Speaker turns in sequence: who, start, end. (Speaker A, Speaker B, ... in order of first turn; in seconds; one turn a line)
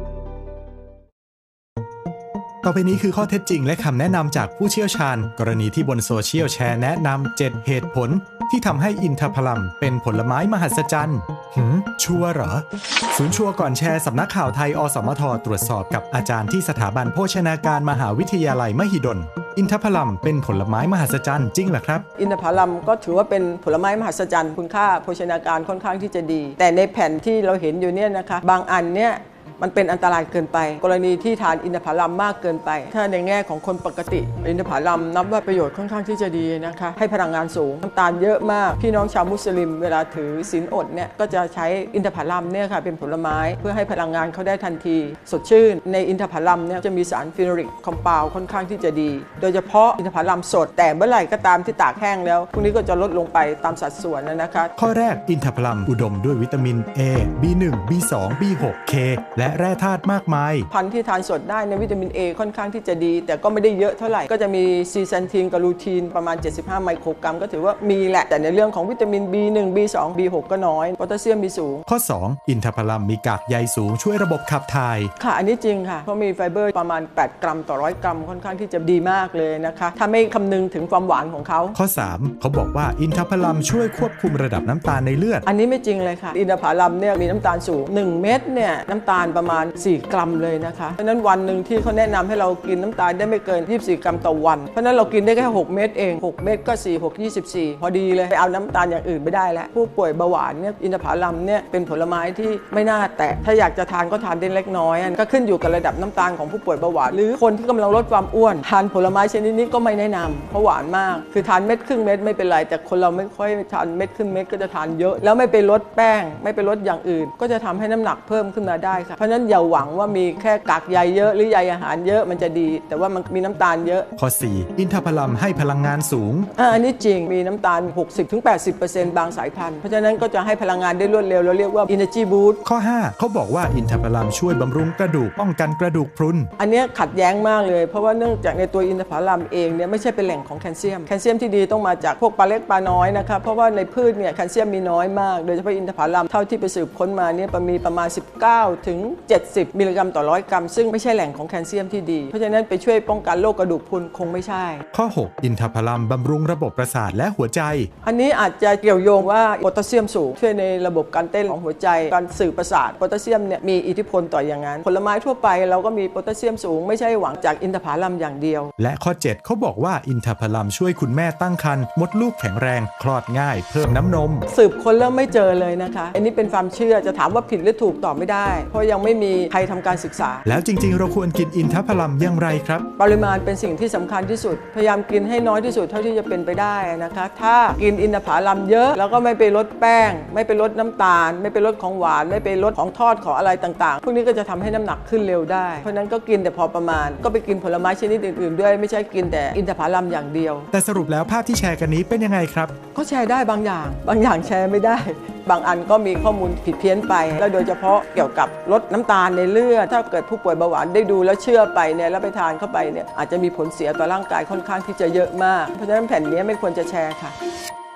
Speaker A: 2.6-22.1
Speaker B: 22.2-54.7
Speaker A: 54.8-60.7
Speaker B: 60.7-71.8
Speaker A: 71.9-75.1
Speaker B: 75.2-81.8
Speaker A: 81.7-85.4
Speaker B: 85.4-124.1
Speaker A: 124.2-126.5
Speaker B: 126.5-132.6
Speaker A: 132.6-136.5
Speaker B: 136.6-154.8
Speaker A: 154.9-157.9
Speaker B: 158.0-168.7
Speaker A: 168.8-174.5
Speaker B: 174.5-180.4
Speaker A: 180.4-182.9
Speaker B: 183.0-200.7
Speaker A: 200.7-202.7
Speaker B: 202.9-217.3